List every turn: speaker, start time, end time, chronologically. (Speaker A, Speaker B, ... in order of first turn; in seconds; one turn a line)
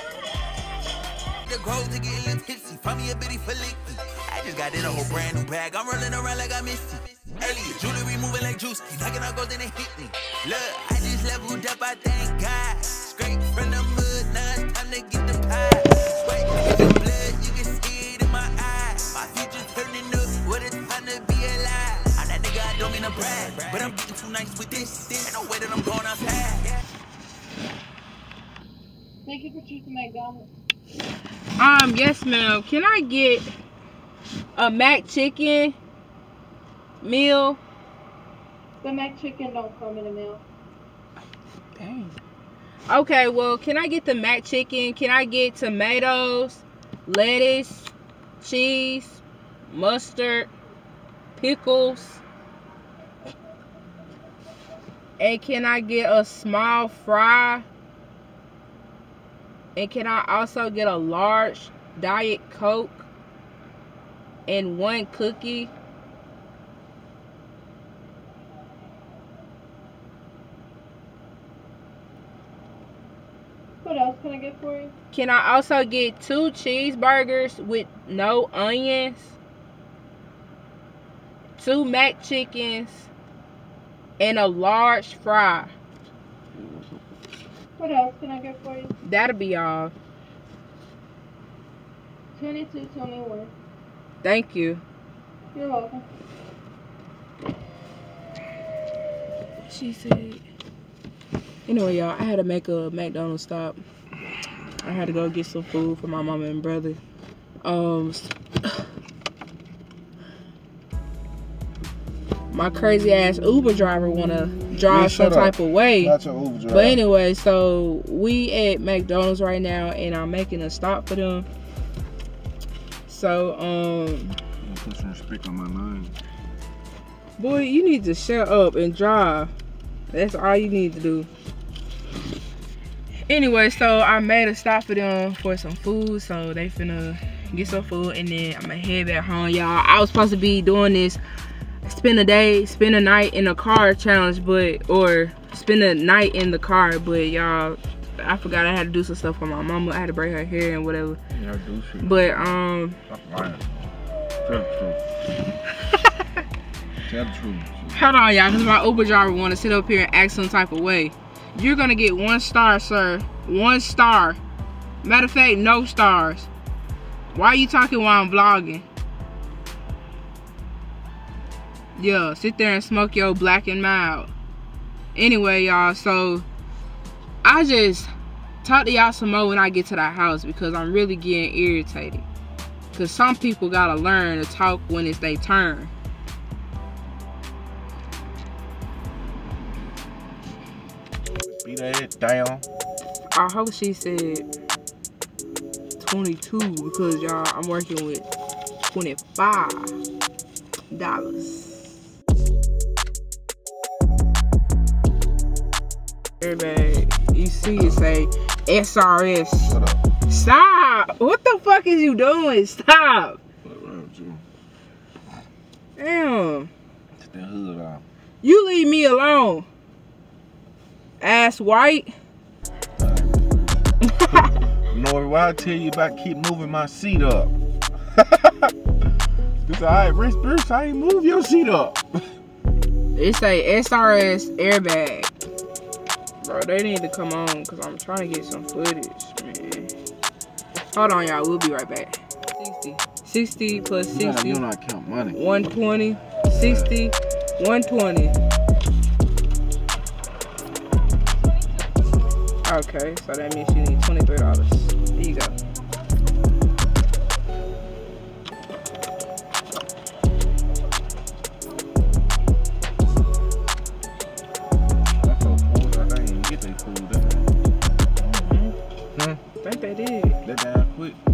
Speaker A: 1.4-26.7
Speaker B: 29.2-30.5
Speaker C: 31.6-33.5
Speaker C: 34.5-35.8
Speaker C: 37.0-37.6
Speaker B: 38.8-40.4
Speaker C: 41.8-42.2
Speaker C: 42.9-50.5
Speaker C: 51.4-52.2
Speaker C: 55.2-57.6
Speaker C: 59.8-63.1
Speaker C: 64.5-65.7
Speaker B: 73.8-74.9
Speaker C: 75.1-79.4
Speaker C: 81.6-83.1
Speaker C: 84.2-85.7
Speaker B: 87.8-88.9
Speaker C: 89.0-89.9
Speaker B: 92.3-93.5
Speaker C: 94.2-94.8
Speaker B: 95.5-96.0
Speaker C: 99.6-100.4
Speaker C: 101.7-103.8
Speaker C: 104.8-107.0
Speaker C: 107.6-108.9
Speaker C: 112.5-116.1
Speaker D: 114.9-117.0
Speaker C: 116.7-121.5
Speaker C: 123.1-124.4
Speaker D: 124.6-126.2
Speaker C: 127.4-129.5
Speaker C: 130.1-131.3
Speaker C: 133.3-141.2
Speaker C: 141.8-151.2
Speaker D: 151.3-152.5
Speaker C: 152.0-153.0
Speaker D: 153.1-153.6
Speaker D: 154.4-155.0
Speaker D: 157.1-158.1
Speaker C: 157.9-164.4
Speaker C: 165.0-166.5
Speaker C: 167.3-168.8
Speaker C: 172.0-174.3
Speaker C: 175.1-176.4
Speaker C: 177.4-178.1
Speaker C: 178.6-182.3
Speaker C: 182.9-185.9
Speaker D: 191.4-192.6
Speaker C: 193.3-194.5
Speaker C: 196.0-198.3
Speaker C: 198.9-199.9
Speaker C: 200.9-202.0
Speaker C: 206.4-209.7
Speaker D: 207.7-208.0
Speaker D: 209.6-210.0
Speaker C: 210.3-213.4
Speaker D: 213.6-214.4
Speaker C: 216.0-216.7
Speaker D: 217.2-218.0
Speaker C: 218.4-219.7
Speaker C: 221.2-222.1
Speaker D: 223.0-227.5
Speaker C: 224.0-224.5
Speaker D: 228.1-228.7
Speaker D: 229.6-232.1
Speaker C: 233.2-235.3
Speaker C: 236.4-239.9
Speaker C: 240.9-244.6
Speaker D: 244.1-245.4
Speaker C: 245.3-248.3
Speaker D: 246.5-246.9
Speaker C: 252.6-255.5
Speaker D: 265.2-267.5
Speaker C: 268.2-268.7
Speaker D: 269.1-269.4
Speaker C: 269.6-270.4
Speaker D: 270.4-271.2